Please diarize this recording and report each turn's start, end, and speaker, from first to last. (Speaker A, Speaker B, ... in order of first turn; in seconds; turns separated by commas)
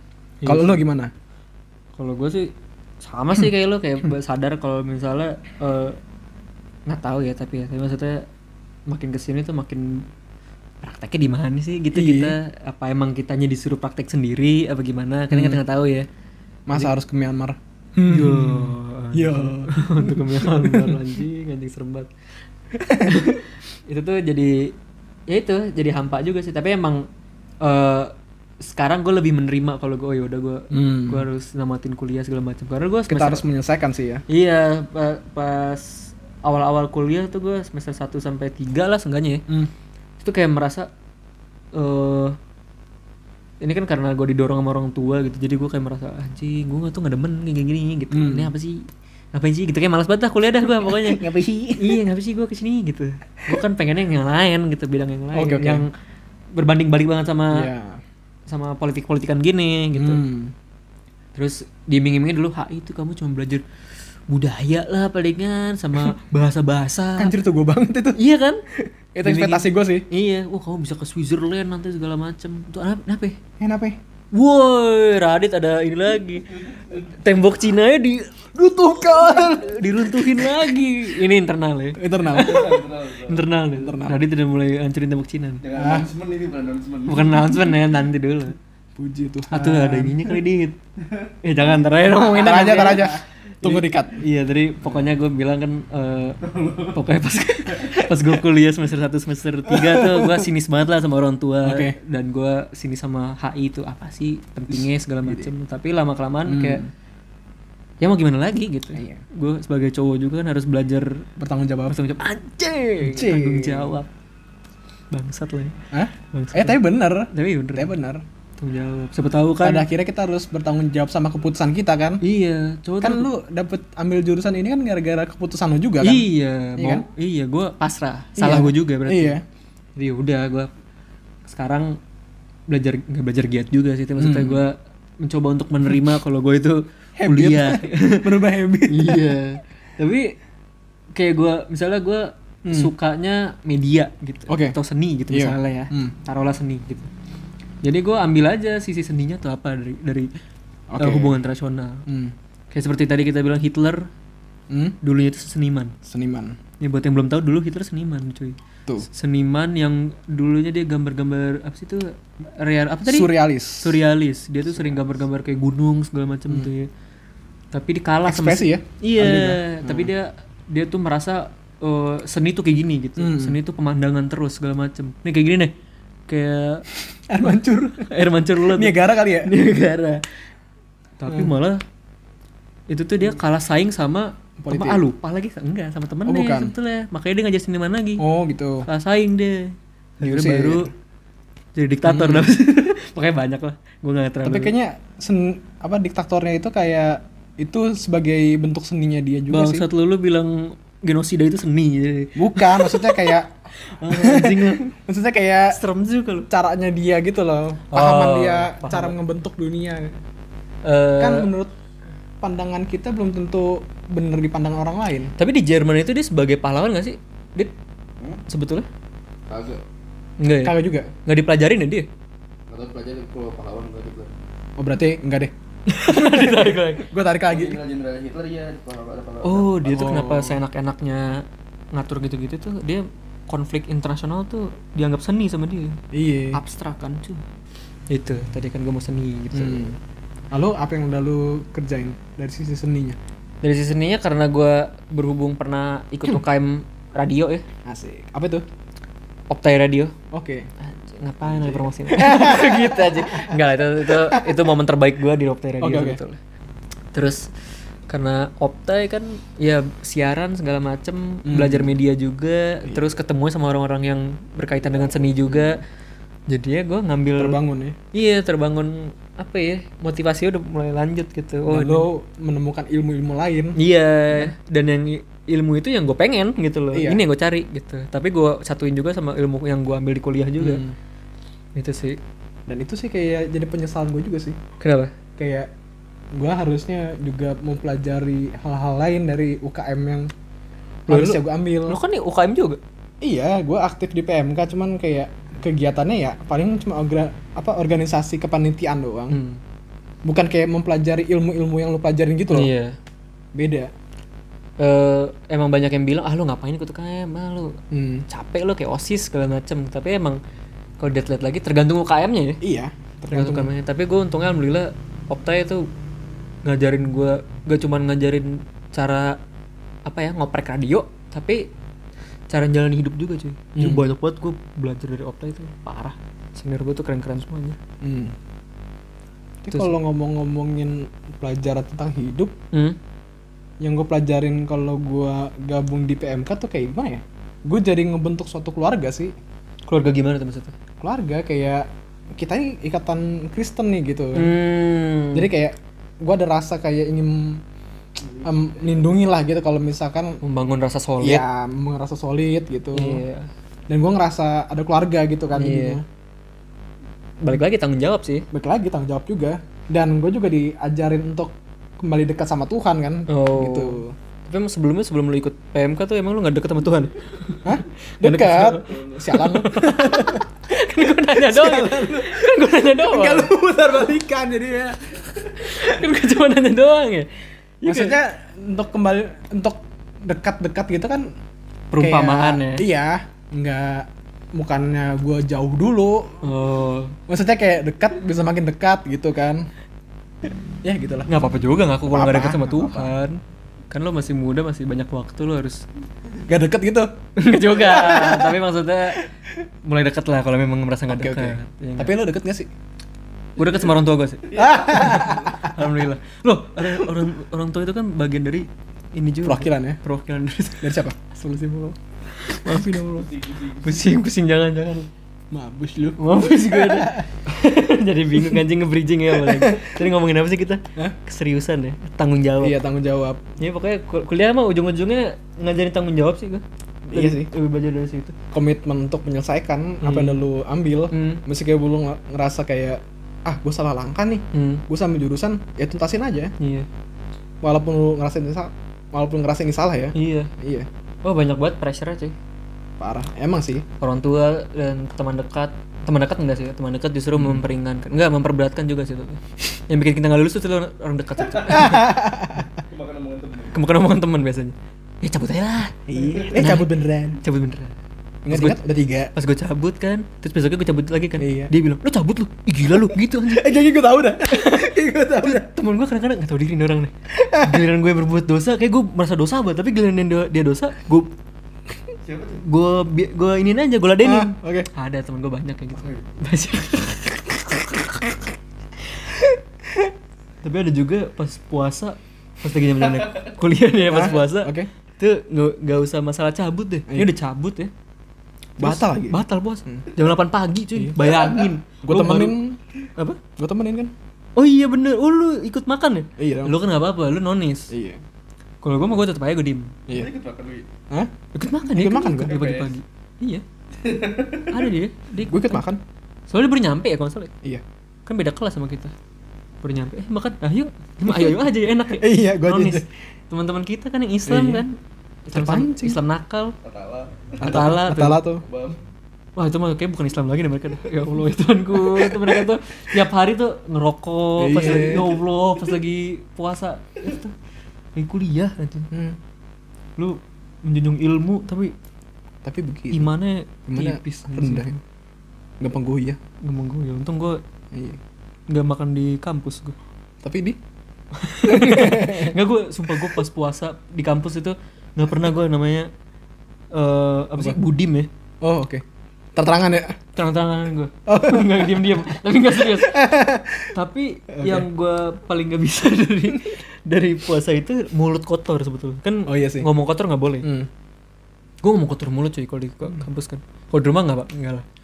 Speaker A: 0.4-0.8, Speaker B: 0.5-1.1, Speaker A: 1.9-6.0, Speaker A: 6.9-8.2, Speaker A: 8.9-10.1, Speaker A: 10.8-16.1, Speaker B: 11.9-12.4, Speaker B: 15.3-15.6, Speaker B: 16.7-21.1, Speaker A: 18.1-22.1, Speaker B: 22.7-23.4, Speaker A: 23.0-24.7, Speaker A: 25.3-27.1, Speaker A: 27.6-33.4, Speaker B: 30.7-31.2, Speaker B: 33.1-34.2, Speaker A: 34.3-39.4, Speaker A: 40.2-40.9, Speaker A: 41.7-42.4, Speaker A: 43.6-51.2, Speaker B: 48.1-48.5, Speaker B: 50.6-52.0, Speaker A: 51.8-55.9, Speaker B: 55.3-55.8, Speaker A: 56.5-57.7, Speaker B: 57.5-58.0, Speaker A: 58.5-60.2, Speaker B: 59.9-60.5, Speaker A: 61.3-63.6, Speaker A: 64.3-67.3, Speaker B: 67.2-68.2, Speaker A: 68.1-68.6, Speaker B: 68.7-70.0, Speaker A: 69.2-73.4, Speaker B: 73.6-74.0, Speaker A: 74.3-85.6, Speaker C: 76.6-77.0, Speaker B: 79.1-79.5, Speaker B: 82.0-82.8, Speaker C: 82.3-83.5, Speaker B: 83.7-84.2, Speaker C: 85.6-87.7, Speaker B: 85.7-86.1, Speaker A: 87.1-88.6, Speaker B: 89.0-90.3, Speaker A: 89.5-90.8, Speaker C: 91.0-91.8, Speaker A: 91.4-106.8, Speaker B: 92.1-94.2, Speaker C: 96.4-97.1, Speaker C: 97.7-98.0, Speaker B: 99.7-100.5, Speaker B: 101.6-102.0, Speaker B: 104.7-105.5, Speaker B: 106.5-106.9, Speaker A: 108.0-111.2, Speaker B: 108.9-109.2, Speaker B: 111.4-112.0, Speaker A: 111.9-114.1, Speaker B: 113.0-114.0, Speaker A: 115.1-115.8, Speaker B: 115.9-118.2, Speaker A: 116.3-117.9, Speaker A: 118.6-119.9, Speaker B: 119.6-122.2, Speaker A: 122.2-123.3, Speaker B: 123.0-127.0, Speaker A: 126.0-129.3, Speaker B: 128.4-129.4, Speaker A: 129.9-130.7, Speaker A: 131.5-132.0, Speaker A: 132.7-138.3, Speaker B: 134.2-134.6, Speaker B: 137.2-139.3, Speaker A: 138.9-140.3, Speaker A: 141.1-147.1, Speaker B: 142.7-142.9, Speaker B: 144.5-144.8, Speaker B: 145.3-146.1, Speaker A: 147.8-150.3, Speaker B: 150.9-151.3, Speaker A: 151.0-152.0, Speaker B: 152.1-152.3, Speaker A: 152.7-154.1, Speaker B: 154.7-155.0, Speaker A: 155.0-155.9, Speaker B: 156.0-156.6, Speaker A: 156.8-166.9, Speaker B: 163.0-164.0, Speaker B: 164.7-165.1, Speaker A: 167.7-175.7, Speaker B: 168.2-170.1, Speaker B: 173.2-173.6, Speaker A: 176.3-176.8, Speaker B: 177.3-179.5, Speaker A: 178.0-180.2, Speaker A: 181.2-181.8, Speaker B: 181.3-181.5, Speaker A: 182.9-188.2, Speaker B: 184.6-185.0, Speaker B: 186.2-186.7, Speaker B: 188.2-188.9, Speaker A: 188.8-190.9, Speaker B: 190.2-190.9, Speaker A: 191.7-194.7, Speaker B: 192.1-192.5, Speaker B: 194.4-199.8, Speaker A: 199.5-204.9, Speaker B: 202.3-203.5, Speaker B: 204.1-205.8, Speaker A: 205.7-206.5, Speaker B: 206.5-210.2, Speaker A: 207.9-209.2, Speaker A: 210.8-211.5, Speaker B: 211.2-211.7, Speaker B: 212.4-215.3, Speaker A: 215.4-217.7, Speaker A: 218.5-218.9, Speaker C: 219.5-219.8, Speaker A: 220.4-222.1, Speaker B: 220.6-221.1, Speaker C: 222.7-224.3, Speaker B: 224.8-227.8, Speaker A: 225.9-227.1, Speaker C: 227.5-230.2, Speaker A: 229.4-236.0, Speaker B: 229.8-230.6, Speaker B: 236.1-236.6, Speaker A: 236.5-237.4, Speaker A: 238.1-239.9, Speaker B: 239.5-239.9, Speaker B: 240.5-243.2, Speaker A: 243.6-247.6, Speaker B: 247.8-248.6, Speaker A: 249.5-250.1, Speaker B: 250.3-250.7, Speaker A: 250.8-256.4, Speaker B: 252.1-254.6, Speaker B: 255.8-256.2, Speaker A: 257.1-257.5, Speaker A: 258.1-265.8, Speaker B: 261.4-261.9, Speaker B: 262.8-263.1, Speaker C: 264.9-265.7, Speaker A: 266.5-267.6, Speaker B: 267.4-268.0, Speaker A: 268.1-272.1, Speaker B: 271.7-273.8, Speaker A: 273.8-280.8, Speaker B: 276.9-277.2, Speaker B: 280.6-280.9, Speaker A: 281.7-282.2, Speaker B: 282.7-284.6, Speaker A: 284.8-285.1, Speaker B: 285.4-285.7, Speaker B: 286.3-290.3, Speaker B: 291.1-292.0, Speaker A: 291.1-292.8, Speaker B: 293.2-299.4, Speaker A: 299.3-299.6, Speaker B: 300.2-302.7, Speaker A: 302.5-302.9, Speaker B: 303.5-303.9, Speaker A: 304.8-307.8, Speaker B: 307.9-308.2, Speaker A: 308.3-310.4, Speaker A: 311.0-312.6, Speaker B: 312.6-313.7, Speaker A: 313.3-315.9, Speaker A: 316.6-319.4, Speaker A: 320.1-321.7, Speaker A: 322.5-327.8, Speaker B: 323.8-324.0, Speaker B: 328.0-328.3, Speaker B: 329.6-332.5, Speaker A: 332.7-333.0, Speaker B: 333.8-339.3, Speaker A: 339.9-340.7, Speaker B: 341.0-344.5, Speaker A: 344.4-345.5, Speaker B: 345.3-347.6, Speaker B: 348.4-350.4, Speaker A: 350.4-351.4, Speaker B: 351.2-353.2, Speaker A: 352.9-353.5, Speaker B: 353.9-356.0, Speaker A: 355.5-356.0, Speaker A: 357.4-358.5, Speaker B: 358.5-364.1, Speaker A: 363.3-373.5, Speaker B: 367.6-370.4, Speaker C: 368.8-369.2, Speaker B: 371.0-375.1, Speaker A: 375.5-377.3, Speaker A: 377.8-378.2, Speaker B: 377.8-381.3, Speaker A: 381.9-382.9, Speaker B: 382.0-386.4, Speaker A: 386.4-387.1, Speaker B: 387.3-389.7, Speaker B: 390.8-391.3, Speaker A: 391.3-395.8, Speaker B: 392.1-393.1, Speaker B: 396.5-397.1, Speaker A: 397.4-399.3, Speaker B: 397.7-398.6, Speaker A: 399.8-402.1, Speaker B: 401.1-402.7, Speaker A: 403.6-413.3, Speaker C: 404.4-405.7, Speaker B: 404.5-405.6, Speaker B: 409.4-410.0, Speaker B: 410.8-411.1, Speaker C: 413.1-414.1, Speaker A: 413.8-415.1, Speaker B: 415.5-417.3, Speaker A: 416.2-422.8, Speaker B: 419.3-420.0, Speaker B: 422.6-423.4, Speaker A: 423.6-428.4, Speaker B: 427.1-427.5, Speaker B: 428.5-436.5, Speaker A: 430.0-430.4, Speaker A: 431.1-431.4, Speaker A: 434.5-434.8, Speaker A: 436.6-436.9, Speaker B: 437.6-440.9, Speaker A: 440.1-440.5, Speaker A: 441.2-442.3, Speaker B: 443.0-443.8, Speaker A: 444.0-452.1, Speaker B: 447.3-447.6, Speaker C: 451.4-451.9, Speaker B: 451.7-452.8, Speaker C: 452.9-453.8, Speaker A: 453.7-456.9, Speaker B: 456.1-457.4, Speaker C: 456.2-456.6, Speaker A: 457.4-457.9, Speaker B: 458.4-459.3, Speaker A: 458.5-458.8, Speaker A: 459.3-463.8, Speaker B: 461.4-461.7, Speaker B: 463.1-465.7, Speaker A: 464.5-471.3, Speaker B: 467.3-467.9, Speaker C: 472.2-472.6, Speaker A: 472.6-478.5, Speaker B: 474.2-474.9, Speaker A: 479.1-479.4, Speaker A: 480.6-487.9, Speaker C: 483.0-483.5, Speaker B: 484.1-484.9, Speaker B: 488.8-490.0, Speaker A: 488.8-492.6, Speaker B: 490.9-491.4, Speaker C: 491.1-491.7, Speaker B: 492.0-492.8, Speaker B: 493.6-494.1, Speaker A: 494.6-497.9, Speaker B: 496.4-496.8, Speaker B: 497.9-498.2, Speaker A: 498.8-500.0, Speaker C: 500.1-500.9, Speaker A: 501.5-503.6, Speaker B: 501.9-502.5, Speaker C: 502.4-502.9, Speaker C: 503.9-504.9, Speaker A: 504.7-505.8, Speaker B: 505.4-506.0, Speaker A: 506.5-507.5, Speaker A: 508.2-509.1, Speaker A: 509.8-515.0, Speaker B: 511.3-513.1, Speaker B: 514.5-514.8, Speaker B: 515.5-516.2, Speaker A: 515.5-516.7, Speaker C: 516.8-517.9, Speaker B: 517.6-518.6, Speaker A: 517.6-518.4, Speaker C: 518.6-519.0, Speaker A: 519.5-527.5, Speaker B: 522.0-522.6, Speaker B: 524.6-525.4, Speaker A: 528.1-529.1, Speaker B: 529.1-529.4, Speaker A: 530.2-531.9, Speaker B: 532.6-533.3, Speaker A: 533.1-534.8, Speaker B: 533.9-535.0, Speaker B: 535.8-536.4, Speaker A: 536.6-537.6, Speaker B: 537.9-538.2, Speaker A: 538.7-540.0, Speaker B: 540.4-540.8, Speaker A: 541.3-546.1, Speaker B: 541.6-542.6, Speaker B: 543.1-543.4, Speaker A: 546.9-548.3, Speaker B: 548.6-549.0, Speaker B: 549.5-550.1, Speaker A: 550.4-553.4, Speaker B: 551.3-553.9, Speaker A: 553.9-560.7, Speaker B: 554.5-554.9, Speaker B: 559.5-559.9, Speaker B: 560.6-560.9, Speaker A: 561.8-564.8